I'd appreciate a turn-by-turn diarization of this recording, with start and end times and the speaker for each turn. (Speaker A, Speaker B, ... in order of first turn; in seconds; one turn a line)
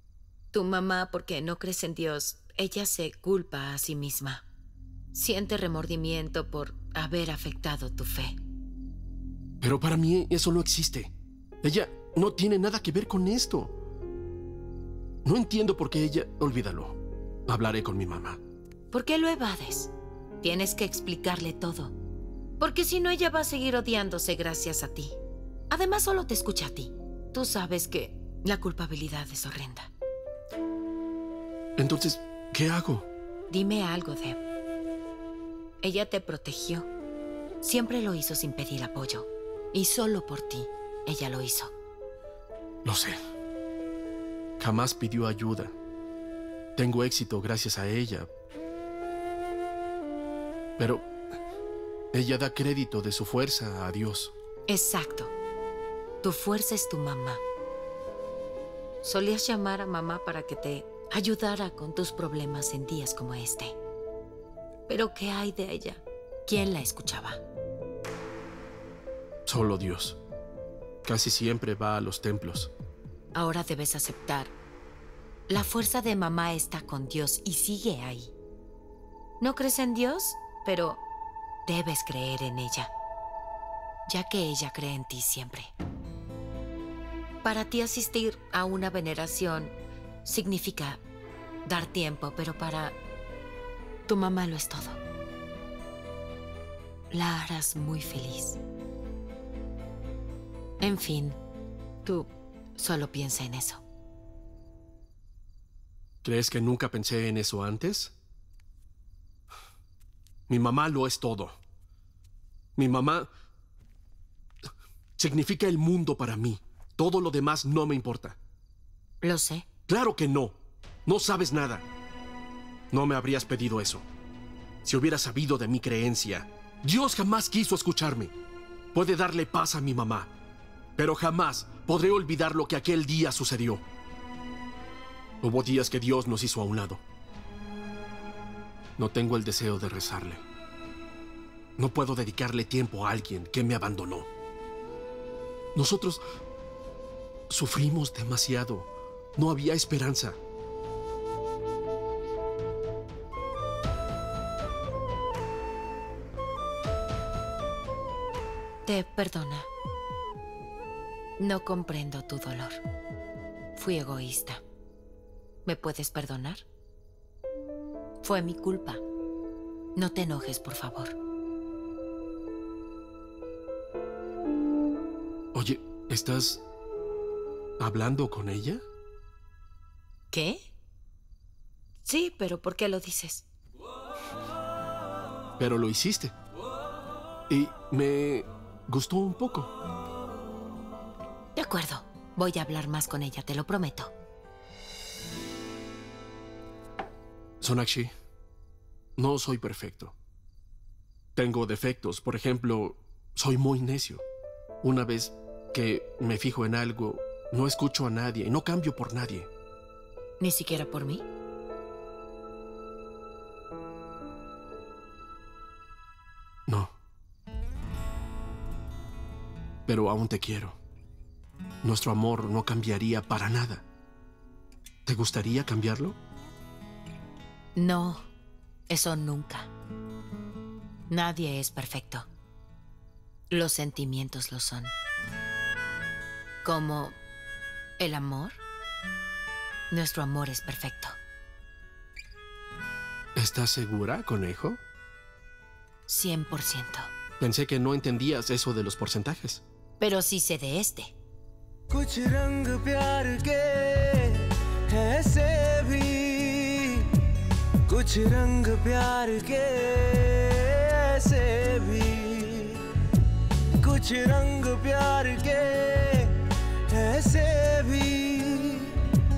Speaker A: 0.5-4.4
Speaker A: 5.1-8.3
Speaker B: 9.6-13.8
Speaker B: 15.2-18.4
Speaker A: 18.9-21.9
Speaker A: 22.6-25.2
Speaker A: 25.7-29.9
Speaker B: 31.8-33.1
Speaker A: 33.5-34.4
Speaker A: 35.8-36.9
Speaker A: 37.6-41.7
Speaker B: 42.8-43.2
Speaker B: 44.6-45.7
Speaker B: 46.8-48.3
Speaker B: 50.8-51.1
Speaker B: 52.1-54.3
Speaker A: 54.7-55.3
Speaker A: 56.2-57.4
Speaker A: 59.0-63.8
Speaker A: 64.9-67.4
Speaker B: 69.5-70.2
Speaker B: 71.0-72.7
Speaker A: 73.3-74.5
Speaker A: 75.5-78.3
Speaker A: 79.4-81.0
Speaker A: 81.7-82.9
Speaker A: 84.1-85.7
Speaker A: 87.4-89.7
Speaker A: 90.2-91.0
Speaker A: 91.7-93.0
Speaker A: 94.1-95.0
Speaker A: 97.1-98.6
Speaker A: 100.8-101.4
Speaker A: 102.0-103.8
Speaker B: 106.2-108.1
Speaker B: 110.5-111.5
Speaker B: 112.8-113.3
Speaker B: 115.2-118.4
Speaker A: 119.2-119.7
Speaker B: 119.9-121.8
Speaker B: 122.9-124.0
Speaker B: 124.8-128.3
Speaker B: 128.9-130.3
Speaker B: 131.0-133.8
Speaker B: 135.4-137.0
Speaker B: 139.0-140.4
Speaker B: 141.8-144.3
Speaker B: 145.7-146.2
Speaker B: 147.5-150.4
Speaker A: 158.8-159.7
Speaker A: 161.4-162.8
Speaker A: 163.7-164.6
Speaker A: 165.6-166.6
Speaker A: 168.2-169.0
Speaker A: 169.9-171.2
Speaker B: 175.5-176.6
Speaker B: 177.8-178.8
Speaker A: 180.3-180.7
Speaker A: 182.0-183.4
Speaker B: 185.6-186.3
Speaker B: 187.5-189.7
Speaker A: 191.5-194.1
Speaker B: 197.6-198.1
Speaker B: 199.2-200.1
Speaker B: 201.3-204.2
Speaker B: 204.8-209.5
Speaker A: 210.4-211.2
Speaker B: 216.7-216.9
Speaker B: 219.9-220.8
Speaker B: 221.8-223.8
Speaker B: 225.1-226.2
Speaker A: 227.8-228.3
Speaker A: 228.9-229.7
Speaker A: 231.1-232.3
Speaker A: 233.5-234.9
Speaker A: 236.6-237.2
Speaker A: 238.0-238.6
Speaker A: 239.9-241.2
Speaker B: 243.3-244.8
Speaker A: 246.1-247.1
Speaker B: 247.4-249.6
Speaker A: 250.0-251.1
Speaker C: 251.9-257.3
Speaker C: 257.9-263.0
Speaker C: 263.8-269.2